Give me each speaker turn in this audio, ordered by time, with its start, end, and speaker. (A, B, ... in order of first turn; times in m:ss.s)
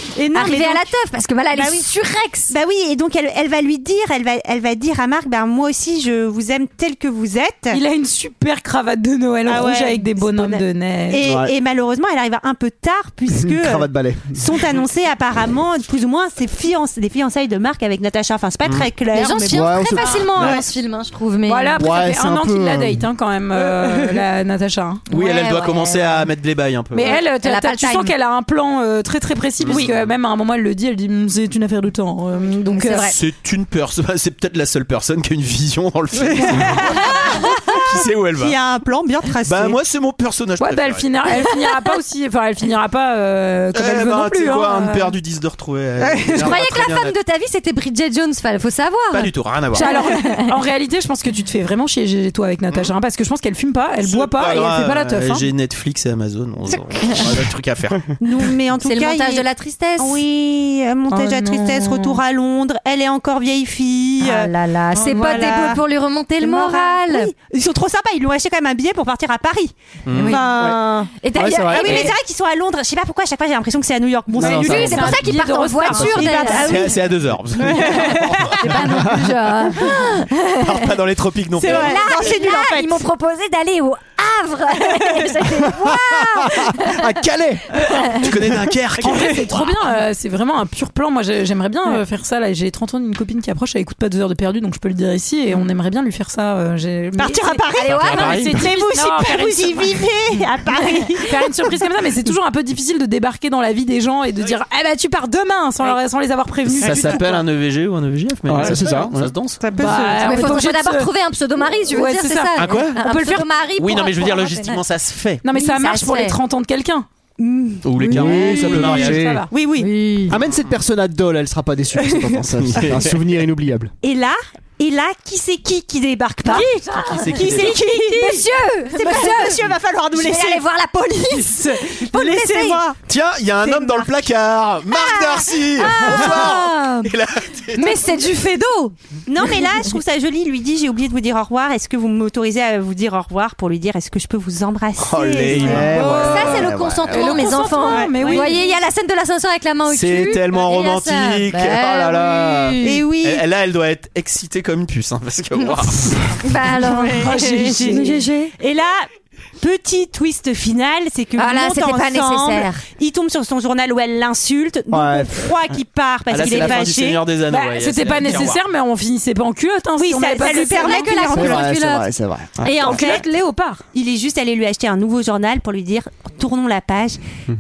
0:00.1-0:00.8 A
0:00.3-0:02.5 B
0:01.5-0:01.9 A
0:02.5-0:07.8 A
0:07.7-0:11.2 C
0:09.5-0:20.6 A
0:11.2-0:11.5 D
0:13.3-0:14.4 D
0:19.1-0:21.9 B
0:19.5-0:20.6 D
0:21.5-0:25.0 C
0:21.8-0:23.1 D
0:25.1-0:26.3 B
0:25.1-0:27.2 E
0:26.9-0:33.1 C
0:27.0-0:28.1 B
0:29.6-0:30.1 E
0:32.7-0:33.2 B
0:33.1-0:38.6 E
0:36.2-0:37.2 A
0:38.4-0:39.8 A
0:39.4-0:41.1 E
0:40.6-0:45.1 C
0:41.3-0:41.9 B
0:43.7-0:47.2 E
0:46.0-0:46.5 A
0:46.3-0:50.4 B
0:49.1-0:49.8 E
0:49.8-0:55.5 C
0:54.0-0:58.2 E
0:57.1-0:57.3 B
0:58.2-0:59.5 A
0:58.8-1:00.2 B
1:00.0-1:05.8 A
1:01.1-1:02.2 C
1:04.2-1:07.3 B
1:06.4-1:11.1 A
1:10.1-1:10.4 E
1:10.1-1:12.2 B
1:10.4-1:10.8 D
1:11.3-1:12.1 D
1:11.7-1:15.1 A
1:14.4-1:15.2 D
1:14.4-1:17.0 B
1:14.4-1:16.7 C
1:15.9-1:17.0 A
1:16.6-1:19.0 E
1:17.6-1:18.5 A
1:18.6-1:21.0 B
1:18.8-1:19.5 D
1:20.6-1:22.1 E
1:21.6-1:23.1 A
1:21.6-1:27.2 B
1:24.9-1:25.4 A
1:25.7-1:28.8 D
1:27.8-1:28.4 B
1:28.1-1:29.8 E
1:29.0-1:39.9 C
1:37.2-1:41.7 A
1:37.8-1:38.5 B
1:37.9-1:38.6 E
1:41.2-1:47.4 C
1:46.8-1:47.3 A
1:46.8-1:49.6 E
1:48.5-1:49.3 D
1:49.6-1:50.3 A
1:49.8-1:51.1 C
1:49.8-1:54.8 B
1:51.9-1:53.4 C
1:52.6-1:53.0 E
1:53.8-1:55.4 E
1:55.4-1:57.1 C
1:55.5-1:56.4 B
1:57.8-1:59.3 E
1:58.0-1:59.5 C
1:58.0-1:59.4 D
1:59.5-1:59.9 A
1:59.8-2:00.4 B
2:00.3-2:03.9 D
2:02.6-2:03.2 E
2:04.0-2:10.6 A
2:06.4-2:12.8 B
2:06.5-2:06.8 C
2:07.4-2:07.6 E
2:11.3-2:13.0 A
2:13.1-2:18.1 E
2:13.6-2:14.2 A
2:14.9-2:17.1 B
2:17.8-2:19.7 B
2:19.3-2:26.1 A
2:25.0-2:26.8 E
2:25.6-2:27.3 D
2:25.8-2:33.0 B
2:26.0-2:28.6 C
2:27.8-2:28.6 A
2:29.9-2:36.3 E
2:32.8-2:33.4 A
2:36.4-2:37.4 B
2:36.9-2:39.0 A
2:37.0-2:38.2 C
2:38.2-2:38.5 B
2:39.6-2:47.2 A
2:41.4-2:42.8 B
2:44.9-2:45.5 D
2:46.3-2:48.6 E
2:46.5-2:46.8 D
2:47.5-2:51.3 C
2:50.0-2:51.7 A
2:50.4-2:52.1 B
2:51.3-2:53.0 D
2:52.6-2:53.2 A
2:52.7-2:53.8 C
2:52.8-2:53.0 B
2:53.9-2:57.2 A